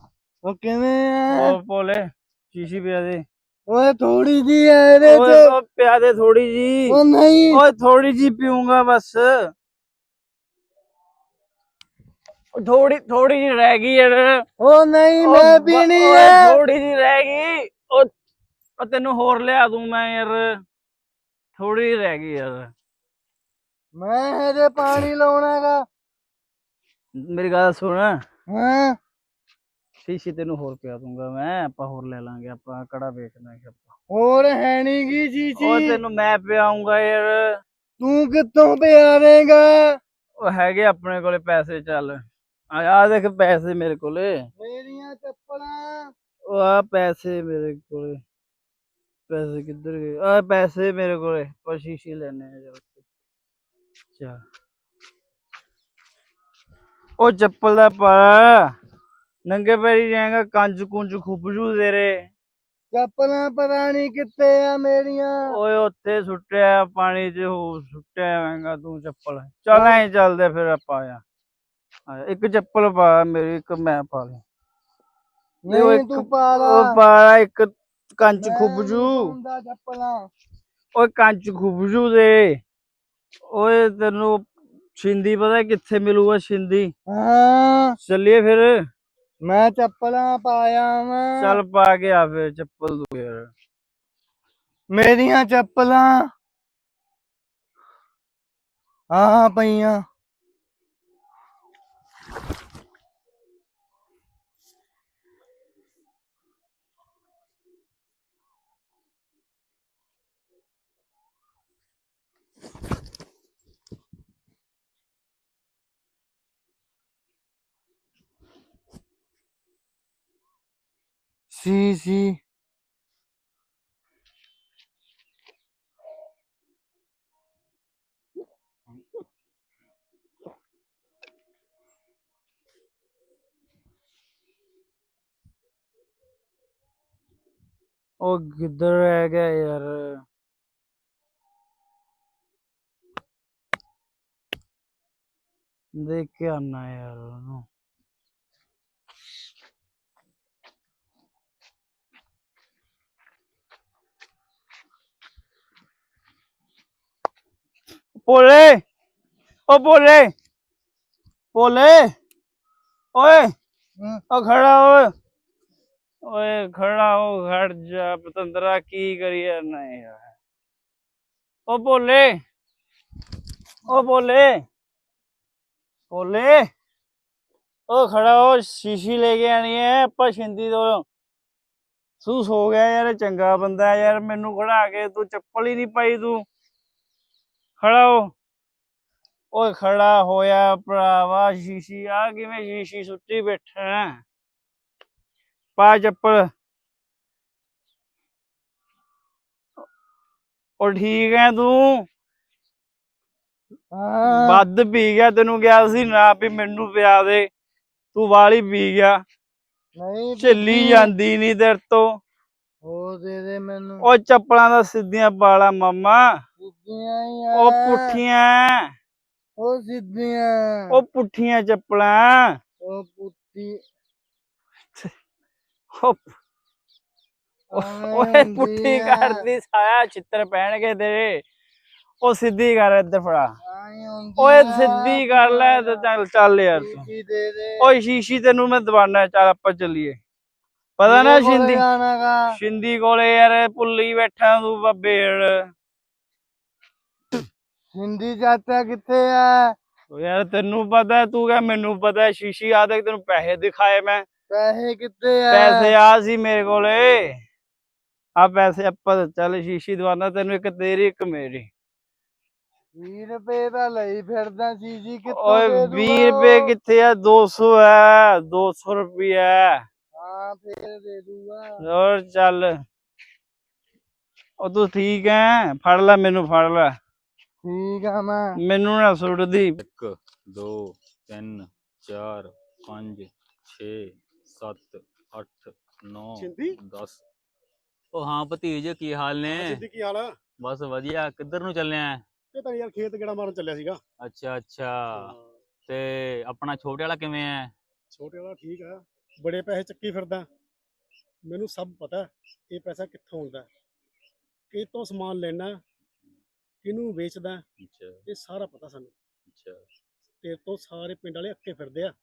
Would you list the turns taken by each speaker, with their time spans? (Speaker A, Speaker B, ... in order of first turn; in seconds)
Speaker A: 0.4-1.6, 3.7-5.5, 6.9-7.6, 14.6-16.5, 23.9-25.8, 28.5-29.0, 34.1-36.0, 38.0-39.9, 44.6-46.1, 62.9-65.5, 69.7-70.0, 75.6-77.0, 78.4-80.3, 87.1-88.0, 89.4-91.6, 94.9-96.3, 99.1-100.0, 121.5-122.4, 203.9-204.6, 209.9-211.1, 212.8-214.1, 216.6-218.2, 219.6-221.0, 222.8-223.8, 227.7-229.4, 233.6-236.1, 236.7-237.9, 241.0-242.4, 247.9-249.7, 254.5-255.9, 262.9-266.7, 270.1-271.7, 277.6-278.6
Speaker B: 1.3-3.2, 5.1-7.0, 7.5-9.3, 12.5-14.4, 15.2-18.1, 18.8-20.4, 21.5-22.7, 27.2-28.1, 30.0-33.9, 35.6-37.4, 40.4-44.3, 46.5-48.2, 49.3-53.0, 54.1-54.4, 57.2-58.6, 59.4-62.3, 65.5-71.2, 72.1-74.4, 75.7-79.3, 80.9-82.6, 83.5-86.9, 88.0-88.7, 91.4-93.5, 138.2-140.2, 145.9-147.6, 158.2-158.8, 159.7-160.3, 161.5-162.1, 163.1-163.5, 164.3-165.1, 166.2-170.3, 171.7-172.4, 173.8-174.6, 176.1-176.6, 177.9-181.0, 182.2-186.4, 187.8-188.3, 189.5-194.2, 195.8-196.4, 200.8-202.0, 204.2-207.5, 208.1-209.2, 210.4-212.2, 214.0-216.2, 217.5-218.8, 220.9-222.4, 225.9-226.3, 227.7-231.4, 232.2-233.5, 234.4-237.1, 237.8-240.2, 241.0-241.8, 242.5-245.5, 250.1-254.2, 255.5-257.2, 258.4-261.7, 265.3-269.8, 271.8-272.7, 274.6-276.9, 278.6-279.8
Speaker C: 279.8-287.2, 288.1-289.8, 290.6-292.2, 294.2-295.3, 295.9-297.7, 307.8-308.2, 309.5-309.8
Speaker D: 286.4-286.8, 289.5-290.3, 292.5-294.0, 295.1-295.5, 298.1-300.4, 301.5-303.7, 304.7-305.8, 306.8-307.6, 308.3-309.1, 310.4-312.1